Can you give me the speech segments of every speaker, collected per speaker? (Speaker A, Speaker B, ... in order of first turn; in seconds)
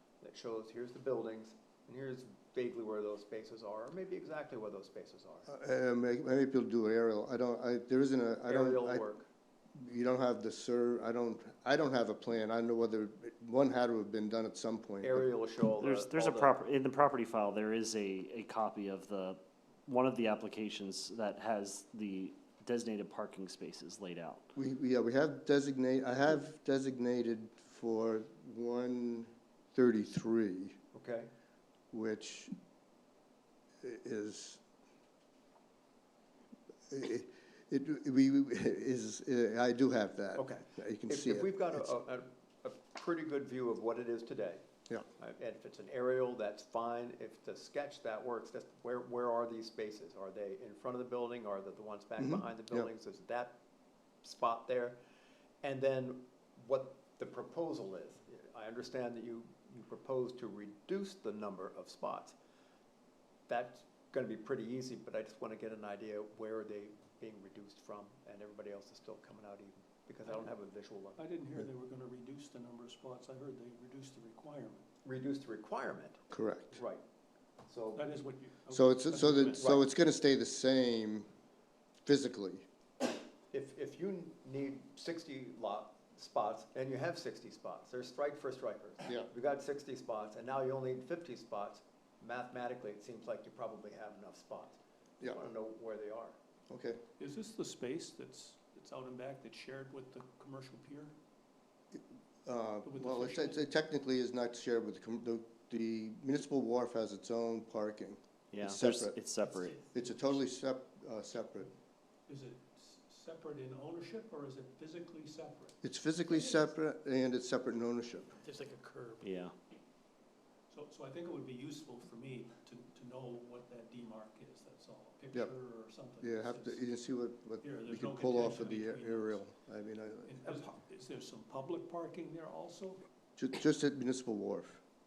Speaker A: 0.2-5.5, 8.5-9.3, 15.0-16.6, 30.9-31.3, 40.4-44.6, 45.2-53.6, 54.2-55.0, 55.6-62.4, 63.5-71.2, 75.0-77.0, 77.7-78.0, 79.5-79.9, 83.5-96.3
Speaker B: 5.5-9.0, 9.7-15.3, 24.6-30.8, 31.9-32.5, 33.8-34.6, 36.9-41.9, 52.2-52.9, 76.3-76.8, 78.7-81.3, 82.0-82.6, 95.2-95.5, 96.7-97.0, 101.9-109.2, 109.9-111.7, 115.8-118.3, 126.2-130.6, 133.4-134.8
Speaker C: 15.8-24.5, 108.5-109.8, 119.2-119.5
Speaker D: 70.2-70.5, 71.1-74.8, 77.9-79.7, 97.2-101.1, 102.8-103.6, 109.2-110.4, 112.3-115.8, 116.3-116.7, 118.4-119.5, 120.7-127.0, 127.6-129.4, 130.2-133.0